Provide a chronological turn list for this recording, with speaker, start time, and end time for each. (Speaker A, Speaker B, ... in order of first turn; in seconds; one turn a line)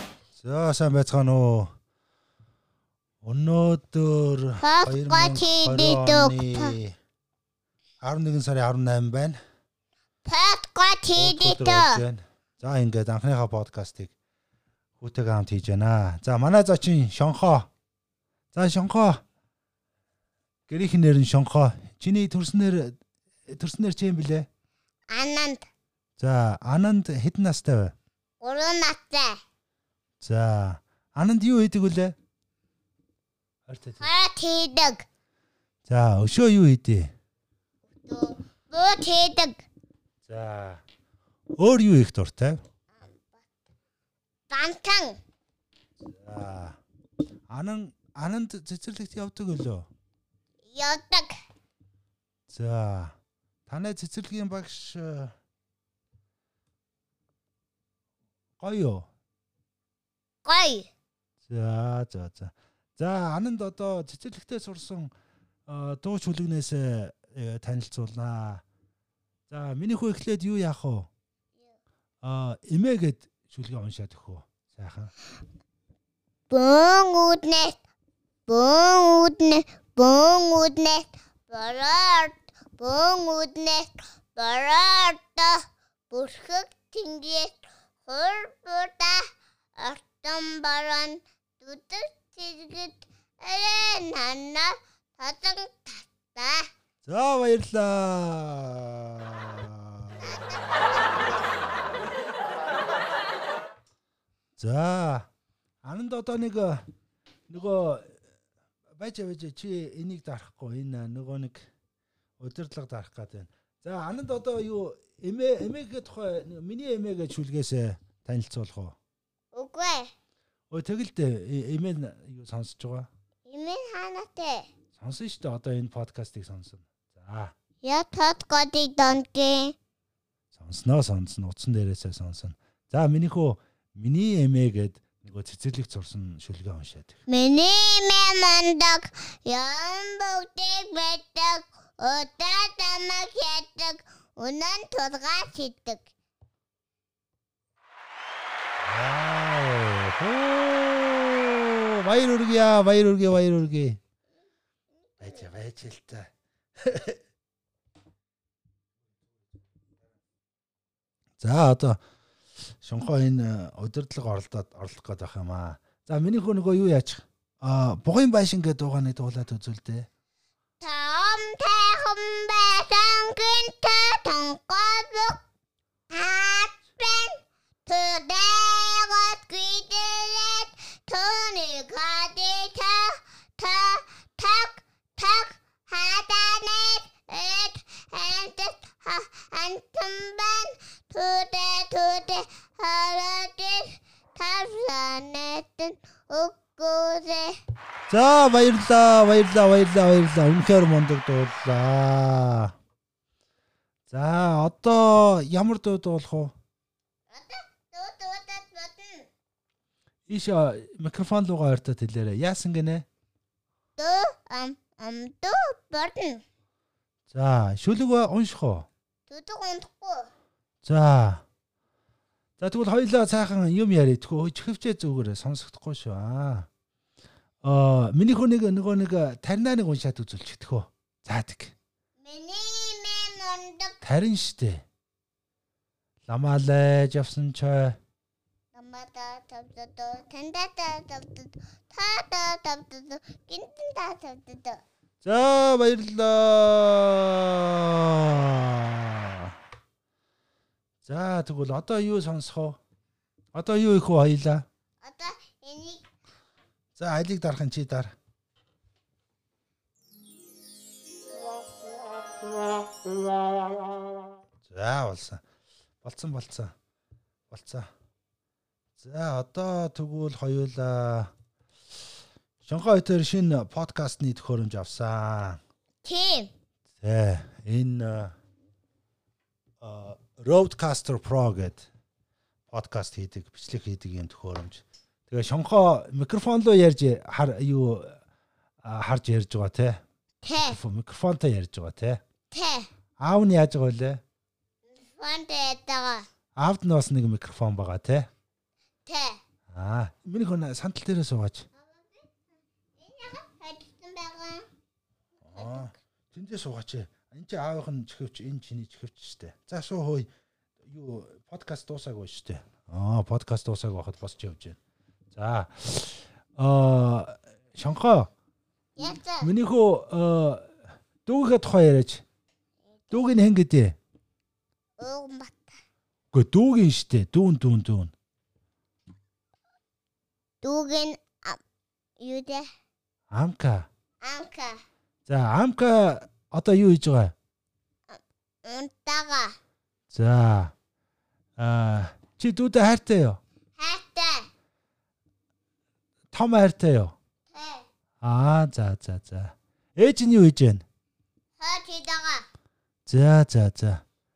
Speaker A: 0.4-1.7
Speaker A: 3.2-7.0
Speaker B: 4.6-6.7
Speaker A: 8.0-9.4
Speaker B: 10.2-12.0
Speaker A: 11.2-14.1
Speaker A: 15.0-17.7
Speaker A: 18.5-19.2
Speaker A: 20.7-23.0
Speaker A: 23.5-24.5
Speaker B: 25.1-25.7
Speaker A: 26.2-27.9
Speaker B: 28.4-29.4
Speaker A: 30.2-32.1
Speaker A: 33.7-34.1
Speaker B: 34.0-35.0
Speaker A: 35.9-37.1
Speaker B: 38.0-39.6
Speaker A: 40.2-40.8
Speaker A: 41.6-42.6
Speaker B: 43.0-43.4
Speaker B: 44.5-45.2
Speaker A: 46.0-46.8
Speaker A: 47.5-49.9
Speaker B: 50.7-51.3
Speaker A: 52.5-53.1
Speaker A: 53.7-55.3
Speaker A: 58.6-59.1
Speaker B: 60.4-60.9
Speaker A: 61.5-65.1
Speaker A: 65.7-68.6
Speaker A: 69.5-71.1
Speaker A: 72.2-75.1
Speaker B: 76.5-77.8
Speaker B: 78.5-85.6
Speaker B: 86.1-96.7
Speaker A: 97.0-100.2
Speaker B: 100.3-100.8
Speaker A: 104.6-105.3
Speaker A: 105.8-106.8
Speaker A: 107.5-108.2
Speaker A: 109.0-111.7
Speaker A: 112.4-119.0
Speaker B: 119.5-120.1
Speaker A: 120.7-123.1
Speaker B: 123.5-124.7
Speaker A: 124.9-127.5
Speaker B: 127.8-129.8
Speaker A: 130.5-137.2
Speaker B: 137.3-146.1
Speaker A: 148.8-154.0
Speaker B: 155.2-155.4
Speaker A: 155.2-157.2
Speaker A: 161.4-162.0
Speaker A: 162.8-170.1
Speaker B: 170.8-175.4
Speaker B: 176.1-197.5
Speaker A: 198.1-202.7
Speaker A: 204.1-206.5
Speaker B: 207.3-209.3
Speaker A: 210.3-213.1
Speaker B: 214.0-216.4
Speaker A: 217.3-218.9
Speaker B: 219.3-220.3
Speaker A: 220.8-221.4
Speaker A: 222.6-226.7
Speaker A: 227.6-231.7
Speaker B: 232.2-234.0
Speaker A: 234.0-234.8
Speaker A: 236.3-238.0
Speaker B: 238.7-244.8
Speaker A: 245.2-249.5
Speaker A: 251.0-252.8
Speaker A: 253.5-254.7
Speaker B: 255.0-256.0
Speaker A: 256.9-258.1
Speaker A: 264.6-265.4
Speaker A: 266.0-266.7
Speaker A: 267.5-267.9
Speaker A: 269.0-271.3
Speaker A: 272.6-275.6
Speaker B: 276.0-276.5
Speaker A: 277.0-278.3
Speaker A: 279.8-281.9
Speaker A: 282.7-288.2
Speaker A: 288.8-290.0
Speaker B: 290.4-290.8
Speaker A: 290.6-292.2
Speaker B: 292.5-292.9
Speaker A: 293.2-294.2
Speaker B: 295.1-296.3
Speaker A: 296.5-298.3
Speaker B: 299.1-299.4
Speaker A: 299.7-301.6
Speaker B: 301.8-302.3
Speaker B: 303.0-304.7
Speaker A: 305.4-310.3
Speaker B: 305.5-305.9
Speaker A: 310.9-314.8
Speaker A: 315.3-318.3
Speaker B: 319.0-319.5
Speaker A: 319.4-322.2
Speaker A: 323.1-324.0
Speaker B: 325.0-325.7
Speaker A: 326.3-328.1
Speaker B: 330.6-331.6
Speaker B: 332.2-332.6
Speaker A: 333.3-333.9
Speaker B: 334.2-334.8
Speaker A: 335.3-337.3
Speaker B: 338.1-339.6
Speaker A: 340.1-340.7
Speaker A: 341.6-343.4
Speaker B: 343.8-344.5
Speaker A: 346.3-347.1
Speaker B: 347.5-347.9
Speaker A: 348.2-350.8
Speaker B: 351.6-352.5
Speaker A: 353.1-354.0